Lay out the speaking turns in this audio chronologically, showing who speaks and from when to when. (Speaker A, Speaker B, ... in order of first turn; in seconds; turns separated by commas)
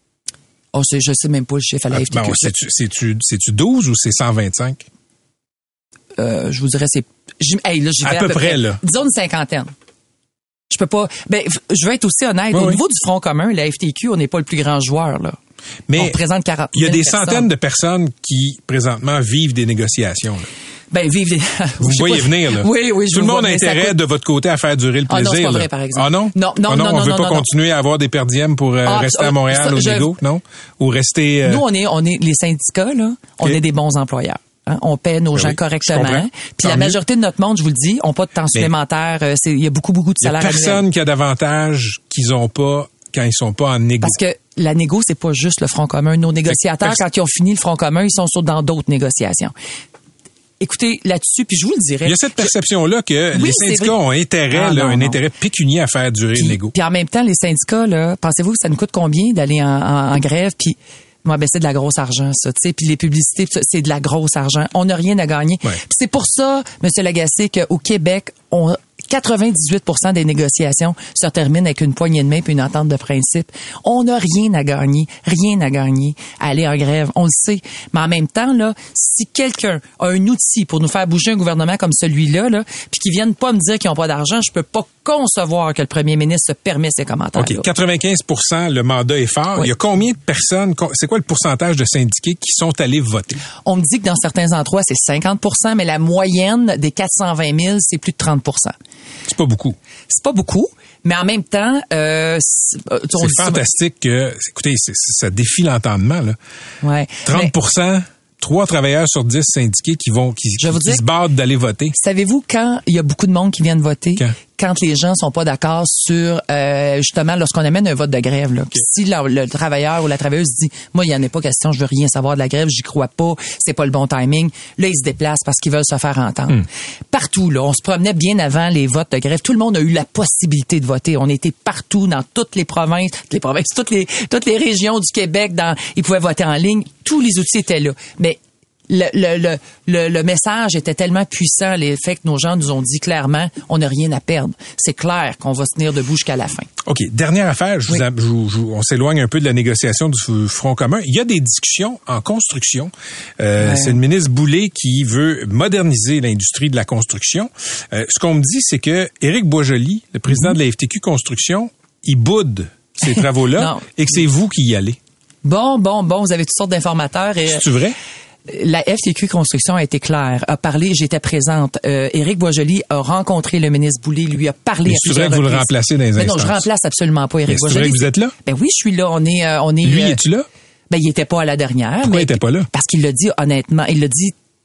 Speaker A: 0.7-2.5, Speaker B: 1.9-4.8, Speaker A: 6.2-9.7, Speaker B: 8.0-8.8, Speaker A: 10.7-15.4, Speaker B: 12.5-12.8, Speaker B: 15.9-16.2, Speaker A: 15.9-17.5, Speaker B: 16.7-20.5, Speaker A: 20.9-24.0, Speaker B: 21.8-31.6, Speaker A: 25.1-27.4, Speaker A: 28.8-30.1, Speaker A: 31.4-40.8, Speaker B: 35.3-37.0, Speaker B: 40.2-44.2, Speaker A: 44.0-49.5, Speaker B: 46.5-47.0, Speaker A: 50.6-52.5, Speaker B: 52.0-56.7, Speaker A: 53.3-53.9, Speaker A: 54.5-55.2, Speaker A: 56.4-87.7, Speaker B: 87.3-93.4, Speaker A: 93.6-98.7, Speaker B: 99.2-99.8, Speaker A: 100.1-103.6, Speaker B: 103.2-106.4, Speaker A: 106.8-107.5, Speaker B: 107.2-111.9, Speaker A: 110.6-111.0, Speaker A: 112.0-146.7, Speaker B: 146.8-165.0, Speaker A: 153.6-154.0, Speaker A: 163.0-164.2, Speaker A: 165.4-167.7, Speaker B: 167.4-168.0, Speaker A: 168.5-180.2, Speaker B: 174.8-176.7, Speaker B: 177.5-178.3, Speaker B: 179.8-180.5, Speaker A: 180.9-184.3, Speaker B: 182.0-182.7